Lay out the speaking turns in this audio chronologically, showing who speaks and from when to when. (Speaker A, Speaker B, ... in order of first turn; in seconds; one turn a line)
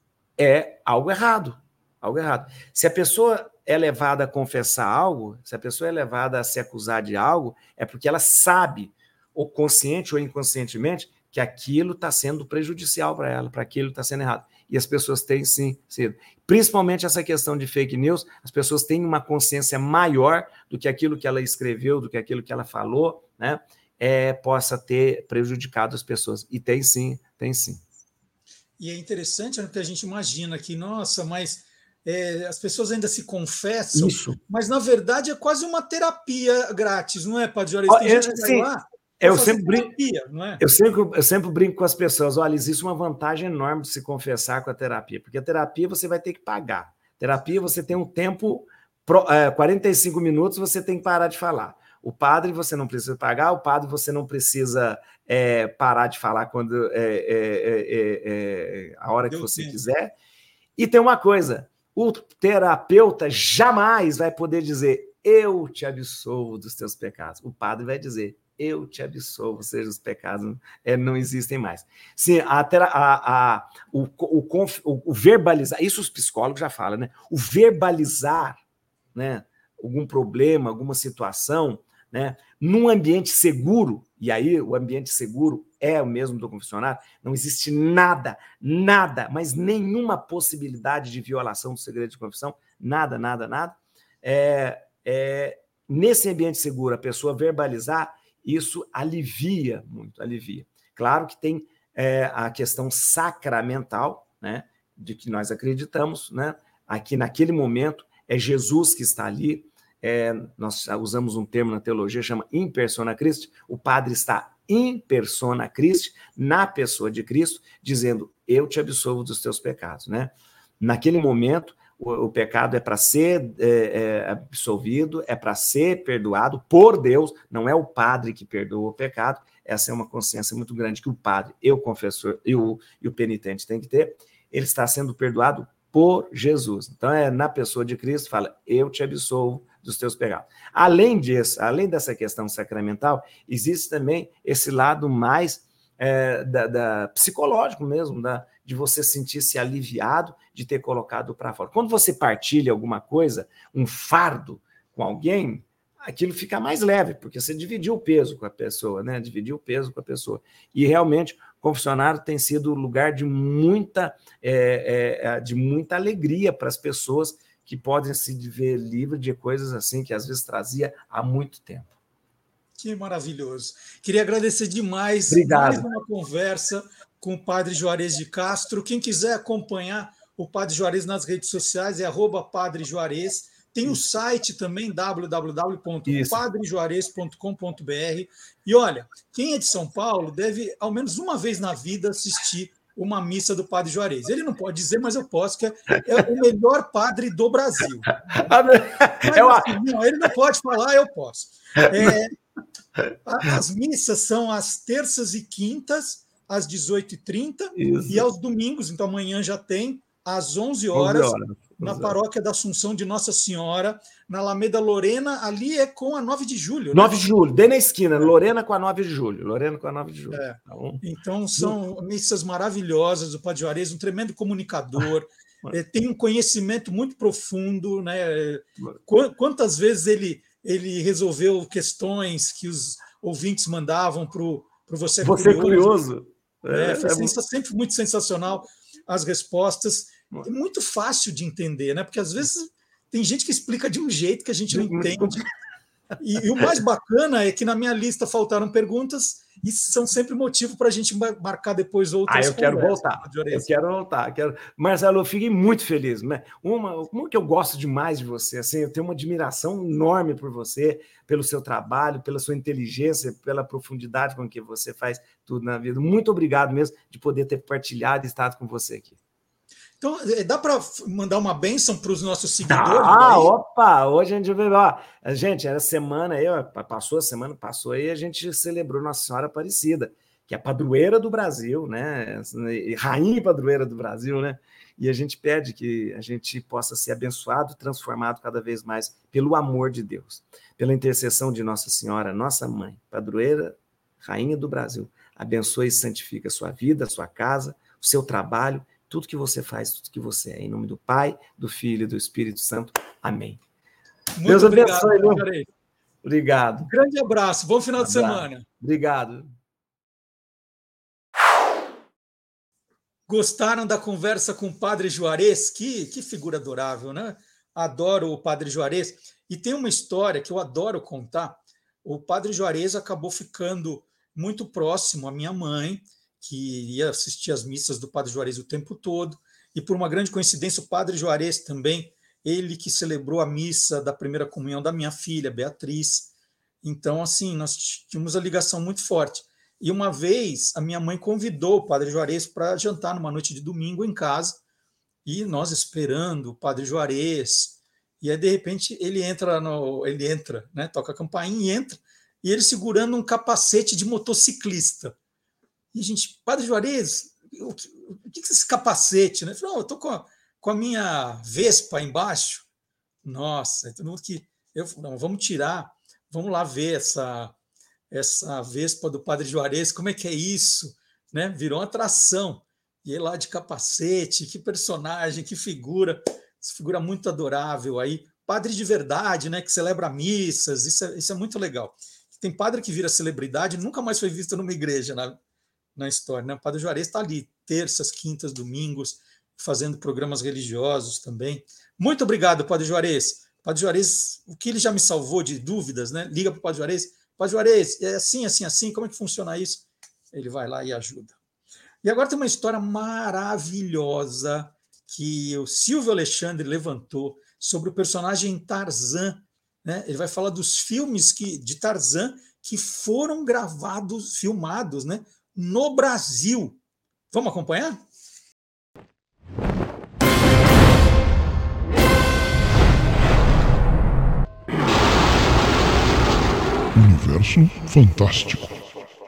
Speaker A: 0.4-27.8
Speaker B: 28.8-40.6
Speaker A: 33.9-34.4
Speaker A: 37.9-38.7
Speaker A: 39.2-39.9
Speaker A: 40.6-60.1
Speaker B: 59.3-59.8
Speaker A: 60.8-78.6
Speaker A: 79.1-171.9
Speaker B: 172.8-198.1
Speaker A: 175.3-175.8
Speaker A: 186.1-186.4
Speaker A: 198.3-199.7
Speaker B: 199.2-202.3
Speaker A: 201.8-202.1
Speaker B: 203.2-217.3
Speaker A: 207.7-208.2
Speaker A: 210.9-212.2
Speaker A: 216.9-221.0
Speaker B: 220.3-236.0
Speaker A: 235.2-237.3
Speaker B: 236.7-245.4
Speaker A: 244.7-245.4
Speaker B: 246.2-253.7
Speaker A: 252.3-269.2
Speaker B: 270.0-273.5
Speaker A: 272.7-303.6
Speaker B: 304.3-305.7
Speaker A: 304.4-305.4
Speaker A: 306.2-306.9
Speaker B: 306.8-308.6
Speaker A: 308.0-309.5
Speaker B: 313.3-336.3
Speaker B: 336.8-344.6
Speaker B: 345.2-355.1
Speaker B: 355.9-362.6
Speaker B: 363.2-367.5
Speaker B: 368.1-385.4
Speaker B: 385.9-401.4
Speaker B: 402.0-416.8
Speaker B: 417.3-418.0
Speaker C: 426.9-428.9